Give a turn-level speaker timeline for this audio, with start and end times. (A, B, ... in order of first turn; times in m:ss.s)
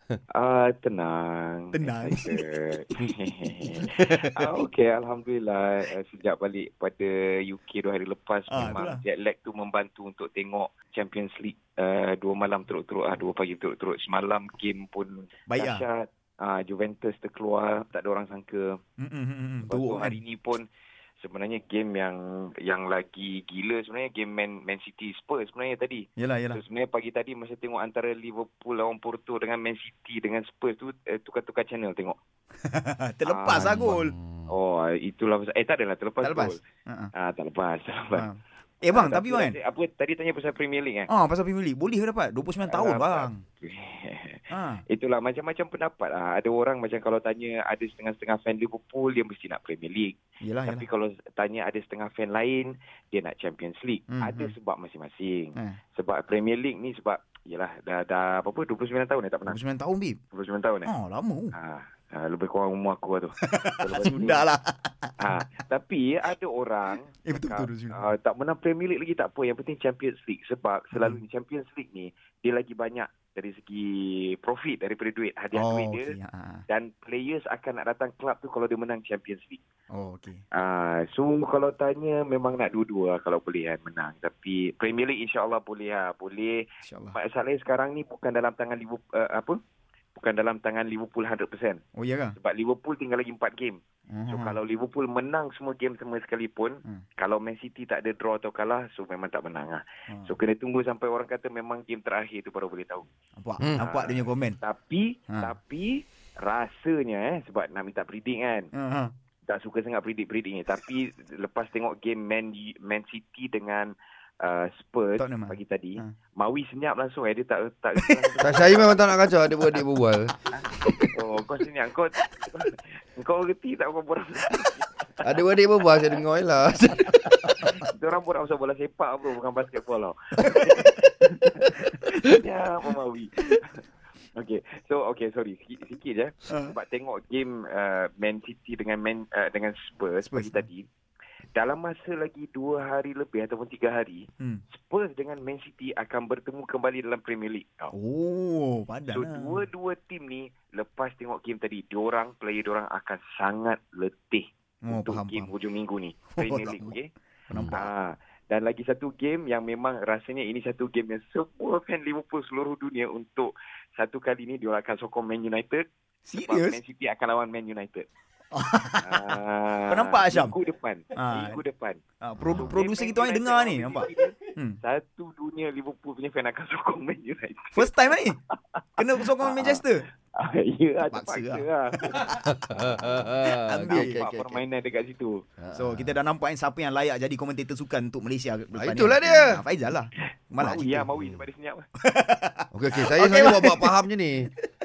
0:00.3-0:18.8 A
0:01.7-0:02.4 B
0:03.6-0:04.5 B
0:08.5-0:09.0 B
0:15.5-0:15.8 B
0:19.0-0:20.2 B
0:19.6-0:20.6 A
0:21.2-0:32.2 A
0:26.2-0:26.6 B
0:32.6-0:34.1 B
0:33.2-0:33.9 A
0:33.5-0:34.5 C
0:34.5-0:36.6 A
0:36.2-0:37.1 B
0:37.1-0:38.2 A
0:38.1-0:39.6 B
0:38.8-0:41.1 A
0:41.1-0:43.4 B
0:42.6-0:59.6 A
0:44.5-0:44.8 B
0:50.4-0:50.8 B
0:54.1-0:54.5 B
0:59.5-1:00.2 B
1:00.3-1:00.9 A
1:00.8-1:01.5 B
1:01.5-1:04.4 A
1:03.4-1:05.4 B
1:05.2-1:16.1 A
1:07.2-1:08.1 B
1:10.9-1:11.2 B
1:15.5-1:16.6 B
1:16.7-1:19.6 A
1:19.9-1:20.4 B
1:20.5-1:29.6 A
1:26.8-1:27.2 B
1:30.2-1:31.8 A
1:31.9-1:32.4 B
1:32.4-1:43.1 A
1:34.1-1:34.6 B
1:40.1-1:40.3 B
1:43.4-1:44.6 B
1:43.8-1:48.7 A
1:48.7-1:49.1 B
1:49.5-1:59.2 A
1:55.2-1:56.1 B
1:58.0-1:58.3 B
1:58.4-2:01.0 C
2:01.1-2:05.4 A
2:05.2-2:07.7 C
2:07.6-2:13.6 A
2:14.3-2:20.9 A
2:16.5-2:16.7 B
2:20.3-2:20.6 B
2:21.5-2:27.9 A
2:27.9-2:29.6 B
2:29.1-2:37.1 A
2:34.8-2:35.5 B
2:36.3-2:36.9 B
2:37.5-2:37.9 B
2:37.7-2:45.8 A
2:46.2-2:46.8 B
2:46.4-2:48.0 A
2:48.5-2:49.4 B
2:49.0-2:52.0 A
2:49.9-2:50.5 B
2:51.1-2:51.6 B
2:52.2-2:54.8 B
2:52.4-2:52.8 C
2:52.5-2:58.6 A
2:57.7-2:58.4 B
2:59.0-3:00.0 B
2:59.4-3:05.4 A
3:01.1-3:02.2 B
3:02.3-3:04.6 C
3:03.4-3:04.2 B
3:05.6-3:06.2 C
3:05.7-3:11.1 B
3:08.7-3:09.7 C
3:10.6-3:11.8 A
3:12.0-3:14.0 B
3:12.7-3:14.5 C